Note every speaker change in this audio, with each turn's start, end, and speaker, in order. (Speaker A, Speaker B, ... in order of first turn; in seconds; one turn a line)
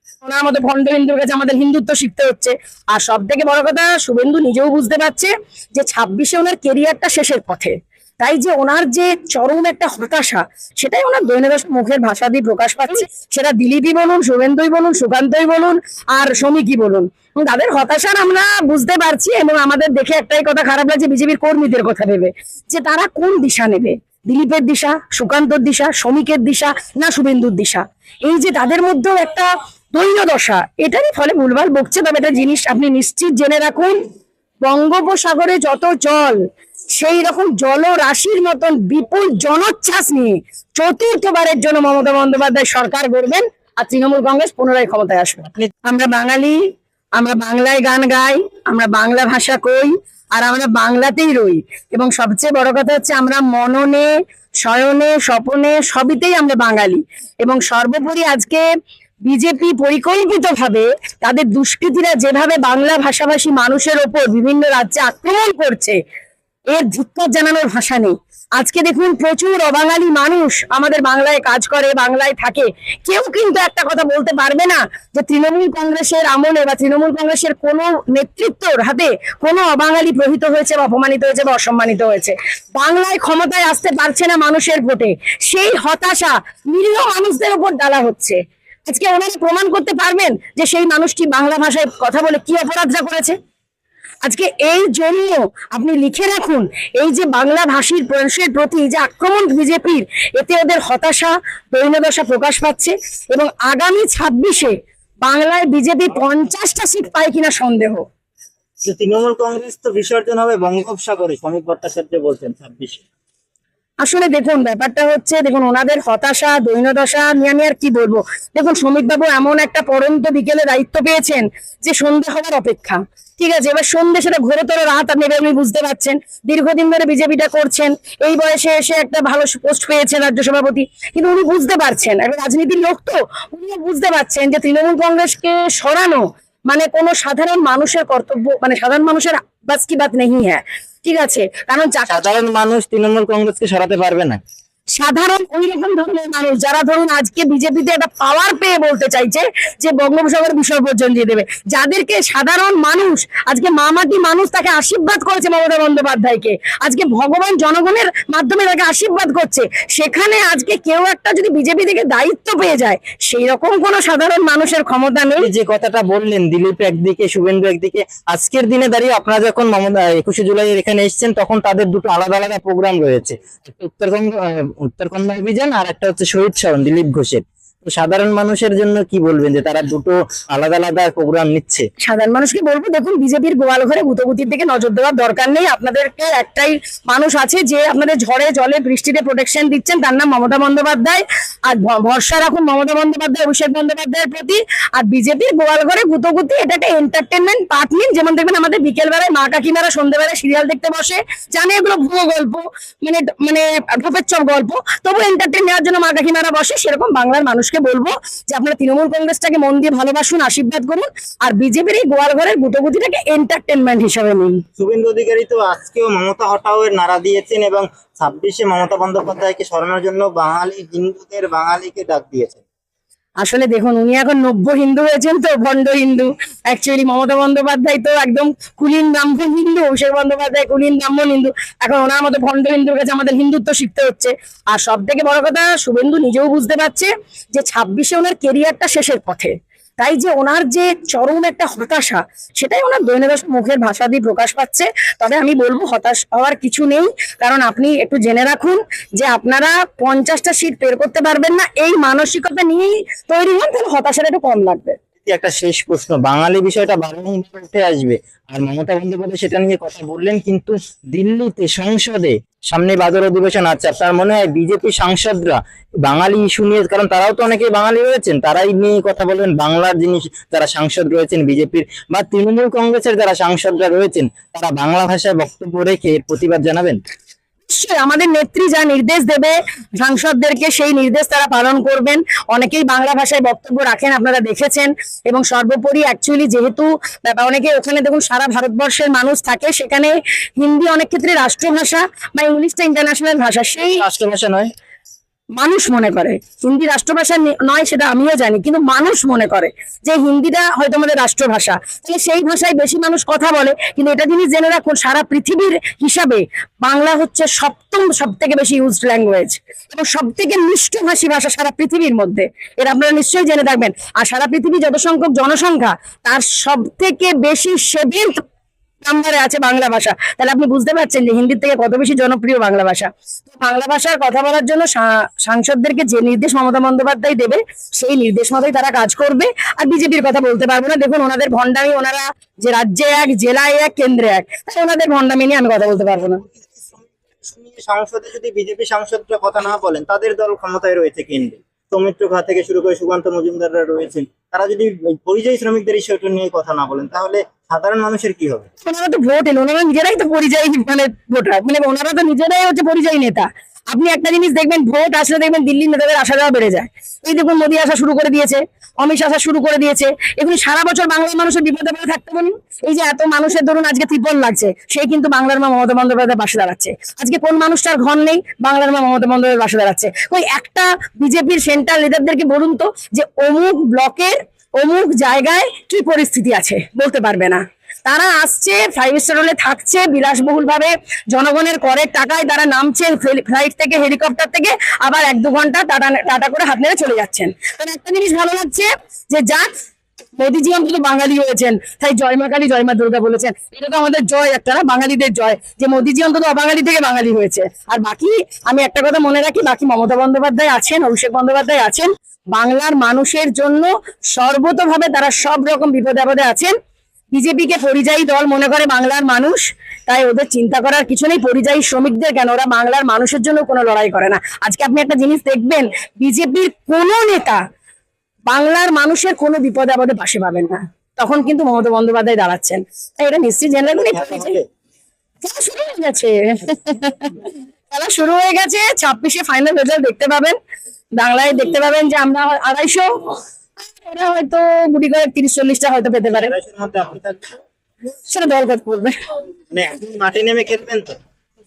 Speaker A: 0.2-34.0
Speaker A: 34.6-36.4
Speaker A: 37.0-46.6
Speaker A: 47.1-54.1
Speaker A: 54.6-58.6
Speaker A: 59.2-66.0
Speaker A: 66.7-93.3
Speaker A: 94.2-108.0
Speaker B: 108.8-113.0
Speaker A: 114.0-142.2
Speaker B: 142.1-144.4
Speaker A: 144.9-165.5
Speaker B: 165.4-181.8
Speaker A: 182.0-214.6
Speaker B: 214.8-222.6
Speaker A: 223.4-255.0
Speaker B: 255.2-277.0
Speaker A: 277.7-294.0
Speaker B: 293.8-294.7
Speaker A: 295.6-318.4
Speaker A: 319.0-336.4
Speaker B: 336.6-348.7
Speaker A: 348.8-389.7
Speaker A: 390.4-406.7
Speaker A: 407.3-417.6
Speaker A: 418.5-424.6
Speaker B: 423.8-424.6
Speaker A: 425.4-430.6
Speaker A: 431.2-433.4
Speaker A: 433.9-436.5
Speaker B: 436.3-437.6
Speaker A: 438.3-439.1
Speaker B: 439.7-441.2